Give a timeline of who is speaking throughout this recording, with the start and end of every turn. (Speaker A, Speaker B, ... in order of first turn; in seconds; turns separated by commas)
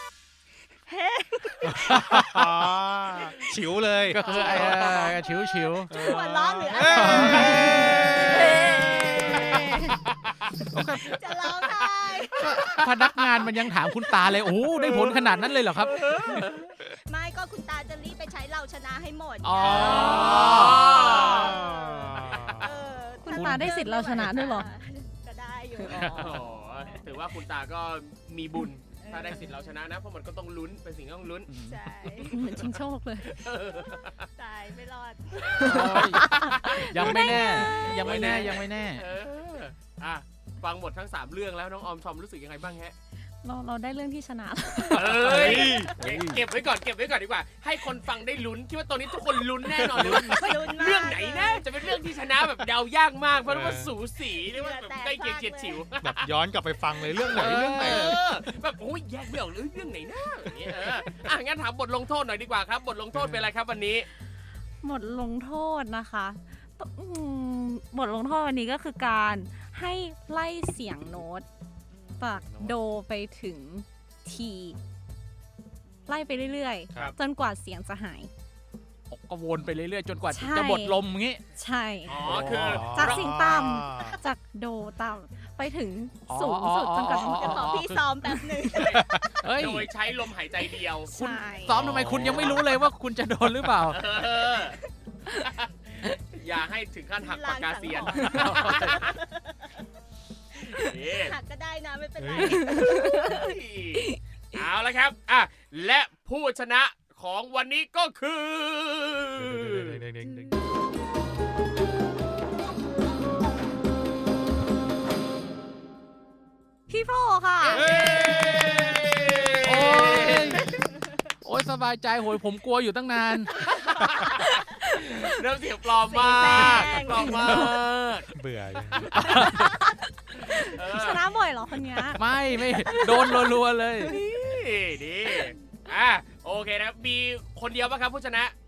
Speaker A: 0.9-2.2, Speaker B: 1.8-2.4, Speaker C: 1.9-4.3, Speaker B: 4.1-6.0, Speaker A: 4.2-9.8, Speaker D: 4.3-5.1, Speaker C: 5.9-9.2, Speaker B: 6.9-8.0, Speaker D: 7.2-9.9, Speaker B: 10.7-11.1, Speaker A: 11.1-12.8, Speaker D: 11.6-13.1, Speaker B: 12.4-16.5, Speaker D: 14.8-16.8, Speaker A: 16.3-27.2, Speaker B: 19.4-21.0, Speaker C: 19.6-20.6, Speaker D: 19.7-21.6, Speaker C: 21.2-22.7, Speaker E: 23.2-24.7, Speaker B: 23.3-23.8, Speaker B: 25.8-26.4, Speaker D: 25.9-31.5, Speaker A: 29.0-29.8, Speaker B: 31.5-31.8, Speaker A: 31.6-32.4, Speaker E: 32.2-33.4, Speaker D: 33.2-34.3, Speaker A: 34.4-36.2, Speaker E: 35.6-38.0, Speaker B: 35.6-39.1, Speaker D: 36.0-43.0, Speaker A: 37.0-38.6, Speaker E: 43.4-45.3, Speaker D: 44.9-56.3, Speaker C: 45.2-45.9, Speaker A: 45.2-45.9, Speaker B: 45.3-46.4, Speaker A: 49.6-52.0, Speaker C: 53.5-53.9, Speaker A: 54.3-55.9, Speaker C: 56.0-58.2, Speaker D: 57.0-64.1, Speaker B: 57.4-58.1, Speaker C: 63.1-63.5, Speaker E: 64.8-71.5, Speaker A: 71.9-72.5, Speaker E: 72.2-74.8, Speaker C: 72.5-72.8, Speaker A: 75.9-76.7, Speaker E: 76.1-78.3, Speaker B: 79.1-81.4, Speaker E: 80.3-81.0, Speaker E: 81.5-88.6, Speaker D: 82.1-83.5, Speaker C: 82.2-84.2, Speaker B: 82.3-82.8, Speaker B: 86.3-88.1, Speaker A: 87.2-89.5, Speaker D: 88.7-89.0, Speaker C: 88.8-89.3, Speaker B: 89.4-89.9, Speaker D: 89.6-91.1, Speaker E: 91.1-91.8, Speaker B: 91.1-94.0, Speaker C: 91.8-92.7, Speaker D: 92.0-92.6, Speaker D: 93.9-94.8, Speaker D: 95.4-99.0, Speaker A: 97.2-99.8, Speaker B: 98.2-99.0, Speaker A: 100.7-103.5, Speaker D: 100.8-101.3, Speaker C: 102.2-102.6, Speaker E: 102.5-103.4, Speaker D: 103.0-110.0, Speaker C: 109.4-110.6, Speaker E: 116.9-117.9, Speaker D: 117.7-120.8, Speaker C: 117.8-118.3, Speaker B: 119.6-120.7, Speaker B: 121.4-123.5, Speaker D: 123.7-128.3, Speaker A: 126.1-127.7, Speaker E: 126.8-127.7, Speaker C: 128.3-129.2, Speaker D: 128.8-129.2, Speaker B: 129.1-129.9, Speaker E: 129.3-132.2, Speaker D: 130.3-131.3, Speaker B: 132.1-134.2, Speaker A: 132.9-133.4, Speaker E: 132.9-133.5, Speaker D: 134.0-138.5